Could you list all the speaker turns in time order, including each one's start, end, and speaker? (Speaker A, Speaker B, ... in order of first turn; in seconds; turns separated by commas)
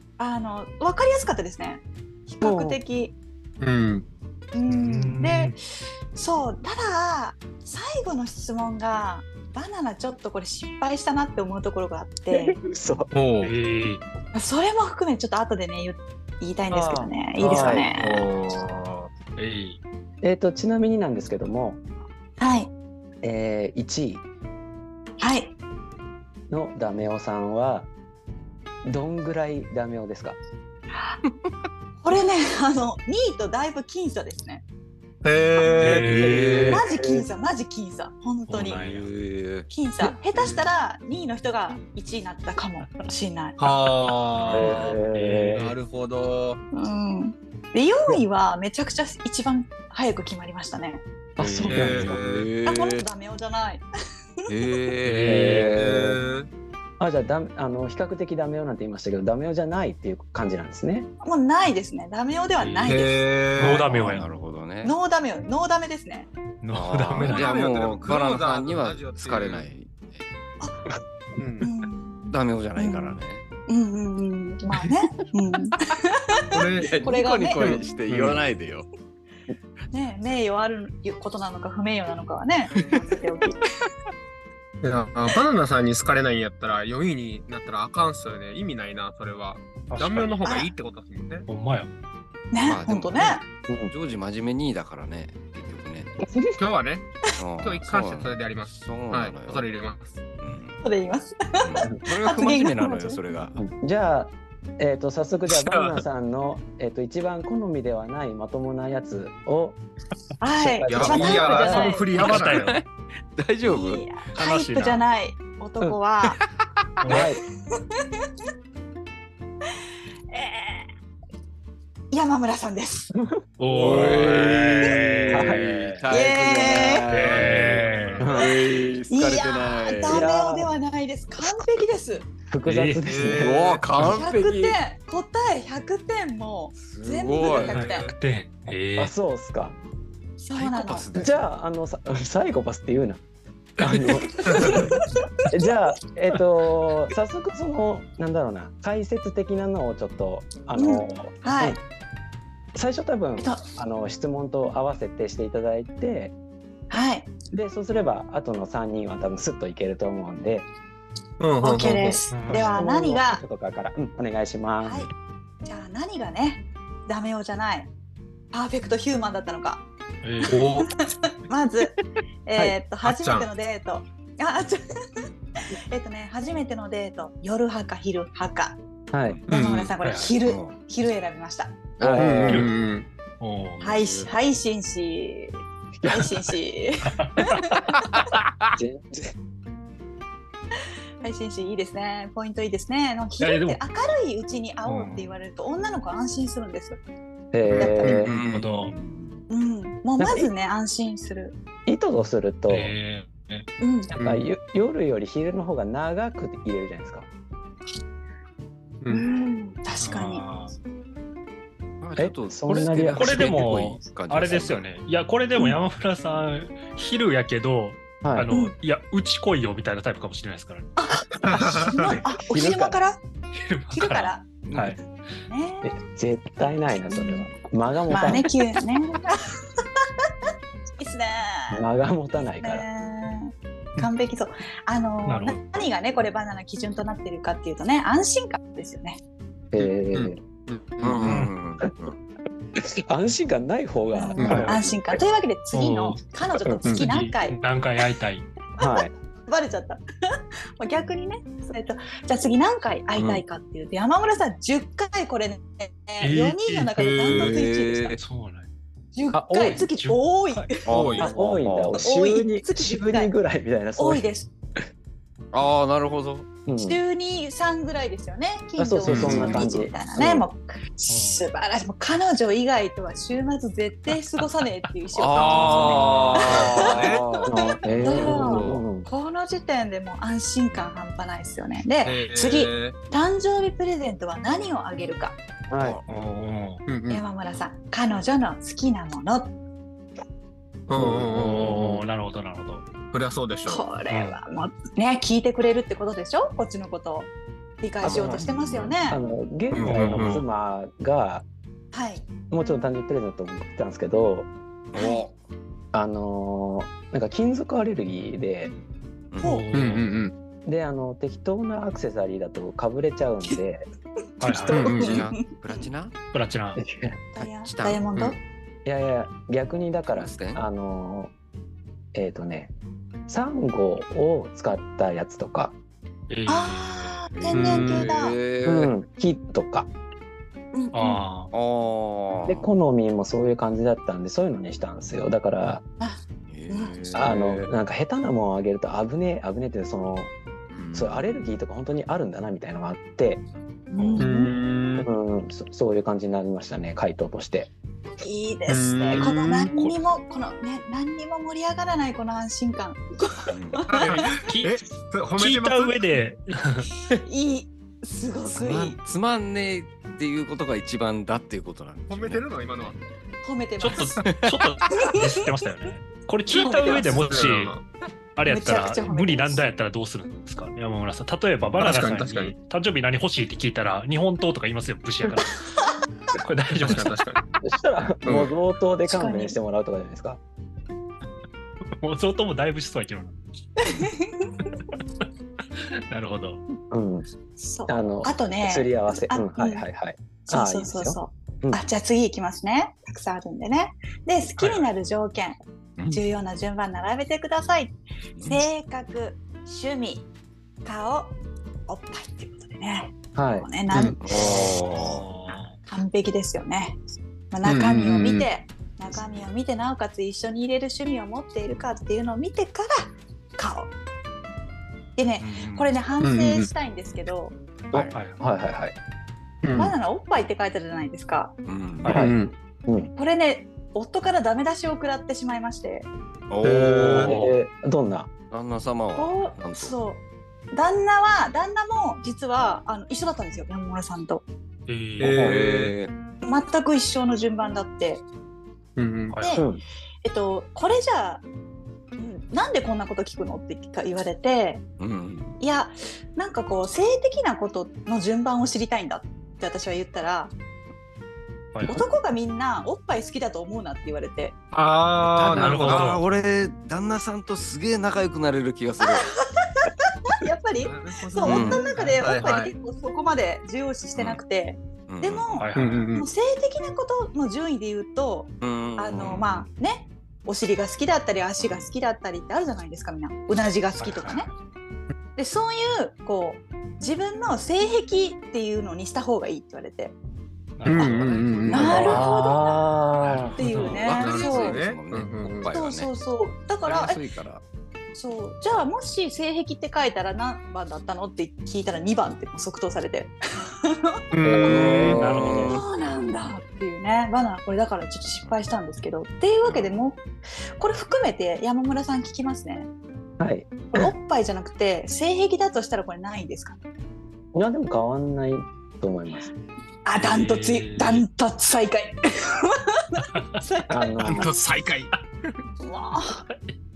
Speaker A: 0.2-3.1, Speaker B: 2.4-2.8, Speaker C: 3.6-4.0, Speaker A: 4.5-5.5, Speaker D: 4.7-5.5, Speaker A: 6.1-12.6, Speaker B: 12.3-13.1, Speaker C: 13.1-13.5, Speaker D: 13.4-14.0, Speaker A: 14.3-18.2, Speaker B: 16.7-17.9, Speaker C: 17.5-19.1, Speaker D: 19.4-19.8, Speaker B: 20.2-21.8, Speaker A: 22.4-22.7, Speaker B: 23.2-24.2, Speaker A: 25.2-25.5, Speaker B: 26.5-27.9, Speaker B: 28.8-30.4, Speaker A: 32.0-34.6, Speaker C: 35.2-36.7, Speaker A: 35.6-36.0, Speaker D: 35.8-36.6, Speaker B: 36.1-37.3, Speaker E: 36.2-36.7, Speaker A: 36.7-38.8, Speaker D: 38.5-39.1, Speaker E: 38.5-39.7, Speaker A: 39.7-43.6, Speaker C: 43.6-46.6, Speaker B: 44.5-45.6, Speaker D: 44.5-45.8, Speaker A: 46.7-51.0, Speaker B: 51.4-52.2, Speaker D: 51.4-52.1, Speaker C: 51.7-52.5, Speaker E: 52.0-53.0, Speaker A: 52.6-53.8, Speaker E: 54.5-55.5, Speaker D: 55.0-55.9, Speaker B: 55.3-56.2, Speaker C: 55.7-56.5, Speaker B: 57.0-61.1, Speaker A: 61.2-63.3, Speaker D: 62.6-63.0, Speaker C: 62.9-63.9, Speaker D: 63.6-64.3, Speaker E: 63.6-65.0, Speaker A: 64.8-66.3, Speaker D: 66.6-67.6, Speaker E: 66.7-70.2, Speaker C: 67.2-69.7, Speaker A: 70.6-70.8, Speaker C: 71.4-71.7, Speaker A: 71.6-77.8, Speaker E: 72.3-73.4, Speaker C: 76.5-76.9, Speaker E: 76.8-78.9, Speaker C: 77.6-78.4, Speaker A: 79.9-83.6, Speaker C: 84.8-91.5, Speaker D: 89.9-90.4, Speaker A: 90.4-90.7, Speaker D: 91.5-91.9, Speaker A: 92.5-93.4, Speaker E: 92.6-93.4, Speaker E: 93.9-96.1, Speaker B: 96.2-96.6, Speaker C: 96.5-97.1, Speaker E: 97.4-99.7, Speaker C: 97.6-100.2, Speaker E: 100.4-100.8, Speaker A: 100.8-103.2, Speaker E: 101.6-103.6, Speaker B: 103.5-109.8, Speaker C: 105.5-106.0, Speaker A: 110.4-112.1, Speaker B: 110.5-112.0, Speaker C: 110.9-112.6, Speaker D: 112.1-112.8, Speaker E: 112.2-114.1, Speaker A: 113.6-116.4, Speaker D: 114.3-115.0, Speaker D: 117.0-117.3, Speaker B: 117.1-117.4, Speaker A: 120.3-120.9, Speaker A: 122.1-123.1, Speaker B: 123.1-124.2, Speaker D: 123.6-126.0, Speaker E: 123.8-130.3, Speaker B: 125.3-125.6, Speaker A: 126.1-127.1, Speaker D: 127.1-128.3, Speaker C: 127.2-128.2, Speaker B: 128.2-128.5, Speaker A: 129.1-132.3, Speaker B: 130.1-130.7, Speaker B: 132.5-133.7, Speaker D: 132.6-133.1, Speaker C: 133.1-133.8, Speaker E: 133.4-134.8, Speaker A: 134.0-138.1, Speaker E: 136.8-137.7, Speaker C: 137.6-138.1, Speaker D: 137.7-139.1, Speaker B: 139.0-139.8, Speaker A: 140.4-141.0, Speaker E: 140.5-141.4, Speaker B: 141.1-143.2, Speaker B: 143.8-145.0, Speaker A: 144.4-145.3, Speaker B: 145.5-151.8, Speaker A: 150.8-151.8, Speaker B: 152.7-156.3, Speaker A: 153.4-153.6, Speaker A: 156.9-157.3, Speaker B: 157.5-160.7, Speaker C: 161.4-162.2, Speaker A: 161.6-163.4, Speaker D: 162.3-162.8, Speaker B: 162.5-165.1, Speaker A: 164.8-165.1, Speaker A: 165.6-167.9, Speaker A: 168.5-169.8, Speaker D: 170.2-170.6, Speaker C: 170.5-170.9, Speaker A: 170.8-174.8, Speaker C: 173.0-173.5, Speaker A: 175.9-178.8, Speaker B: 179.1-179.4, Speaker A: 179.5-181.8, Speaker C: 179.5-179.9, Speaker D: 180.0-180.3, Speaker E: 180.4-180.7, Speaker B: 182.0-182.7, Speaker D: 182.0-182.7, Speaker C: 182.2-183.1, Speaker D: 183.4-184.0, Speaker A: 183.8-188.1, Speaker E: 183.8-184.2, Speaker B: 186.0-186.3, Speaker D: 187.1-187.8, Speaker E: 188.4-188.7, Speaker B: 188.8-189.3, Speaker A: 191.2-197.0, Speaker D: 193.4-193.8, Speaker D: 194.8-195.3, Speaker B: 197.5-198.3, Speaker C: 197.7-198.4, Speaker A: 197.8-198.1, Speaker E: 198.2-199.4, Speaker D: 198.4-198.9, Speaker A: 199.5-201.6, Speaker B: 200.2-200.5, Speaker B: 201.8-202.9, Speaker D: 202.7-203.7, Speaker A: 203.8-204.1, Speaker B: 204.1-207.3, Speaker C: 204.2-204.5, Speaker A: 209.1-210.4, Speaker D: 210.0-210.7, Speaker E: 212.0-214.9, Speaker B: 212.2-213.6, Speaker D: 213.2-220.9, Speaker B: 218.2-218.5, Speaker A: 221.0-223.2, Speaker C: 221.4-222.2, Speaker B: 222.4-223.0, Speaker D: 223.6-225.0, Speaker A: 223.9-224.5, Speaker A: 225.5-225.9, Speaker B: 225.8-228.5, Speaker A: 227.1-227.5, Speaker A: 228.1-229.8, Speaker A: 231.0-231.8, Speaker B: 231.7-232.8, Speaker A: 232.6-239.2, Speaker D: 235.2-235.6, Speaker B: 239.7-240.4, Speaker C: 239.8-241.5, Speaker E: 241.0-242.2, Speaker D: 241.2-241.5, Speaker B: 242.8-245.2, Speaker A: 244.1-247.6, Speaker C: 244.4-244.7, Speaker D: 245.7-246.2, Speaker D: 247.0-248.5, Speaker A: 248.8-250.0, Speaker B: 248.8-249.1, Speaker A: 250.8-258.2, Speaker E: 253.2-253.4, Speaker D: 256.2-257.0, Speaker C: 257.0-257.5, Speaker E: 257.3-258.2, Speaker D: 258.2-258.7, Speaker A: 259.1-260.9, Speaker B: 259.3-259.8, Speaker D: 259.6-260.8, Speaker C: 260.9-261.3, Speaker E: 260.9-262.0, Speaker B: 261.1-264.3, Speaker A: 262.0-263.3, Speaker A: 263.9-264.5, Speaker E: 265.5-266.5, Speaker B: 266.6-267.0, Speaker A: 266.8-285.4, Speaker B: 268.8-270.5, Speaker E: 269.1-269.5, Speaker C: 269.1-269.7, Speaker D: 271.1-271.5, Speaker E: 275.1-277.5, Speaker C: 275.4-277.2, Speaker D: 275.6-276.2, Speaker B: 277.4-279.1, Speaker E: 278.0-278.8, Speaker C: 282.0-282.9, Speaker B: 285.7-286.0, Speaker E: 285.8-286.0, Speaker D: 286.1-286.8, Speaker C: 286.9-287.2, Speaker A: 287.1-289.5, Speaker C: 290.9-292.0, Speaker D: 291.3-292.9, Speaker C: 293.1-293.9, Speaker A: 293.6-297.3, Speaker D: 294.1-294.4, Speaker A: 297.8-299.2, Speaker B: 298.0-298.4, Speaker E: 298.0-298.9, Speaker B: 299.1-301.4, Speaker C: 299.7-300.4, Speaker D: 299.8-300.4, Speaker A: 301.9-302.3, Speaker B: 302.5-304.5, Speaker E: 304.9-305.3, Speaker A: 304.9-305.2, Speaker B: 305.9-308.7, Speaker E: 309.3-309.6, Speaker A: 309.4-309.7, Speaker D: 309.4-310.1, Speaker C: 309.7-310.3, Speaker B: 310.6-313.8, Speaker D: 314.4-314.9, Speaker A: 314.4-315.8, Speaker C: 314.7-315.2, Speaker E: 314.9-316.1, Speaker D: 316.3-316.8, Speaker B: 316.8-317.2, Speaker A: 317.3-318.4, Speaker E: 317.4-318.4, Speaker B: 318.8-321.3, Speaker E: 320.1-320.6, Speaker B: 322.1-322.7, Speaker B: 323.3-325.7, Speaker D: 326.3-327.3, Speaker A: 326.5-328.4, Speaker E: 327.3-328.9, Speaker C: 327.5-328.1, Speaker B: 328.6-329.9, Speaker A: 330.7-331.2, Speaker D: 330.9-331.5, Speaker E: 331.5-332.7, Speaker B: 332.4-335.8, Speaker A: 336.0-337.2, Speaker E: 336.5-337.7, Speaker B: 337.1-340.3, Speaker E: 340.7-341.2, Speaker B: 340.9-343.4, Speaker A: 343.9-344.5, Speaker D: 344.0-344.3, Speaker C: 344.2-345.1, Speaker B: 345.0-347.7, Speaker A: 348.2-354.1, Speaker C: 348.7-349.7, Speaker E: 353.4-353.9, Speaker C: 353.9-356.0, Speaker D: 354.3-354.8, Speaker D: 355.4-356.9, Speaker A: 357.2-359.0, Speaker E: 358.5-363.0, Speaker C: 362.1-363.0, Speaker A: 363.4-364.2, Speaker D: 363.8-367.7, Speaker E: 364.2-364.7, Speaker A: 366.5-367.2, Speaker C: 366.7-367.8, Speaker D: 368.4-375.6, Speaker A: 368.5-369.6, Speaker C: 371.8-372.5, Speaker D: 376.3-377.1, Speaker C: 376.8-377.4, Speaker B: 377.6-380.4, Speaker C: 378.2-378.5, Speaker A: 379.1-379.6, Speaker D: 382.0-383.9, Speaker A: 383.8-384.7, Speaker D: 384.6-384.9, Speaker D: 386.1-386.6, Speaker B: 386.9-387.2, Speaker A: 387.6-389.8, Speaker B: 387.9-391.8, Speaker A: 390.4-395.6, Speaker D: 394.6-394.9, Speaker A: 396.1-400.3, Speaker E: 398.4-398.6, Speaker A: 400.8-401.3, Speaker A: 401.9-404.3, Speaker B: 403.3-404.1, Speaker E: 404.2-405.2, Speaker D: 404.3-405.8, Speaker A: 405.9-407.0, Speaker A: 407.5-413.9, Speaker C: 407.6-408.5, Speaker A: 415.1-417.6, Speaker D: 415.4-415.9, Speaker C: 416.2-416.7, Speaker B: 417.9-418.9, Speaker D: 418.1-418.4, Speaker C: 419.6-419.9, Speaker A: 419.8-421.5, Speaker E: 421.6-422.2, Speaker D: 422.0-422.3, Speaker B: 422.1-422.3, Speaker C: 422.1-422.5, Speaker B: 422.9-423.1, Speaker A: 423.1-426.1, Speaker E: 426.5-427.3, Speaker B: 426.6-428.3, Speaker C: 426.6-427.3, Speaker D: 427.0-427.5, Speaker E: 428.5-429.9, Speaker A: 429.1-434.4, Speaker D: 434.9-435.4, Speaker C: 435.2-435.9, Speaker E: 435.4-436.1, Speaker A: 436.4-438.2, Speaker C: 439.0-439.3, Speaker D: 439.3-439.6, Speaker A: 439.4-439.6, Speaker B: 439.5-439.8, Speaker A: 440.2-441.4, Speaker A: 442.2-444.8, Speaker E: 445.0-445.6, Speaker A: 445.6-450.5, Speaker D: 451.7-452.1, Speaker A: 451.9-454.5, Speaker C: 454.7-456.1, Speaker E: 455.2-459.3, Speaker D: 455.5-456.2, Speaker A: 459.0-474.5, Speaker C: 460.8-462.7, Speaker E: 461.4-461.8, Speaker D: 461.6-462.5, Speaker E: 464.1-464.4, Speaker E: 465.1-465.9, Speaker D: 465.5-466.0, Speaker C: 465.8-466.3, Speaker E: 468.6-469.6, Speaker E: 471.6-471.9, Speaker D: 474.0-474.5, Speaker A: 475.4-480.1, Speaker D: 480.8-482.2, Speaker C: 480.9-482.2, Speaker A: 481.7-482.8, Speaker B: 481.9-483.6, Speaker D: 483.2-484.3, Speaker A: 483.6-484.8, Speaker E: 483.6-486.1, Speaker C: 484.2-485.7, Speaker A: 485.7-487.2, Speaker E: 486.8-487.6, Speaker A: 488.1-494.2, Speaker C: 494.3-495.2, Speaker B: 494.4-495.6, Speaker E: 494.6-495.8, Speaker D: 495.1-495.8, Speaker A: 495.6-500.2, Speaker E: 499.6-500.1, Speaker A: 500.8-502.9, Speaker B: 503.4-504.1, Speaker A: 503.9-506.8, Speaker B: 507.5-509.5, Speaker A: 510.0-514.3, Speaker D: 510.2-511.2, Speaker B: 513.9-514.5, Speaker C: 514.2-515.1, Speaker A: 515.8-516.4